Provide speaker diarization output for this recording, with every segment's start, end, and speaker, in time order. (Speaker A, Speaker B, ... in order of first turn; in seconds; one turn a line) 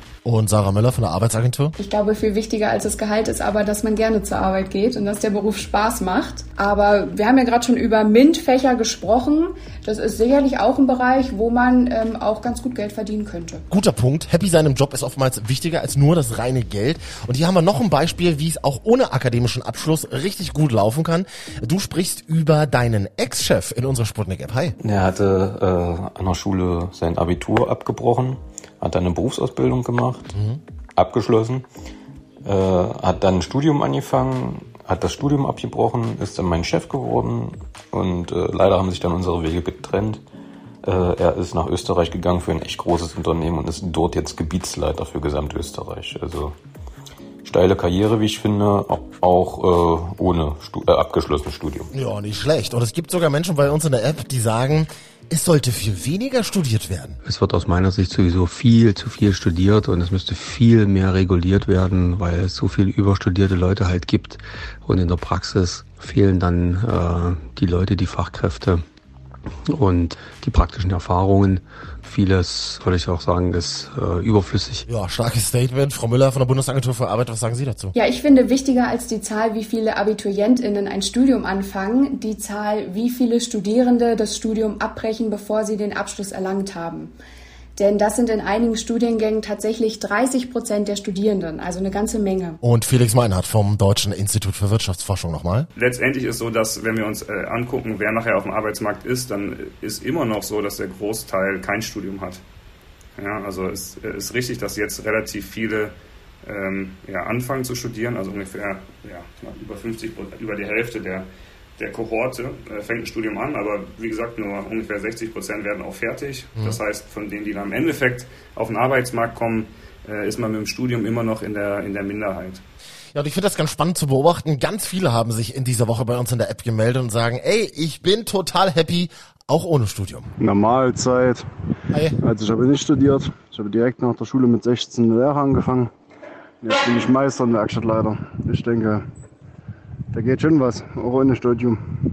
Speaker A: 0.2-1.8
Speaker B: 1.8-13.6
Speaker A: 13.7-24.8
Speaker C: 24.8-30.3
Speaker C: 31.0-31.6
Speaker C: 32.4-40.2
Speaker C: 40.8-46.6
Speaker C: 47.4-51.9
Speaker A: 51.9-57.2
Speaker D: 57.2-68.8
Speaker D: 69.7-74.8
Speaker A: 74.9-77.9
Speaker B: 78.0-87.1
Speaker B: 87.8-92.6
Speaker A: 92.6-95.7
Speaker E: 95.8-102.4
Speaker E: 103.2-105.9
Speaker E: 106.5-111.2
Speaker E: 111.8-122.6
Speaker A: 123.1-130.3
Speaker F: 130.4-131.5
Speaker A: 131.9-132.2
Speaker F: 132.2-135.9
Speaker F: 136.6-139.1
Speaker F: 140.1-141.8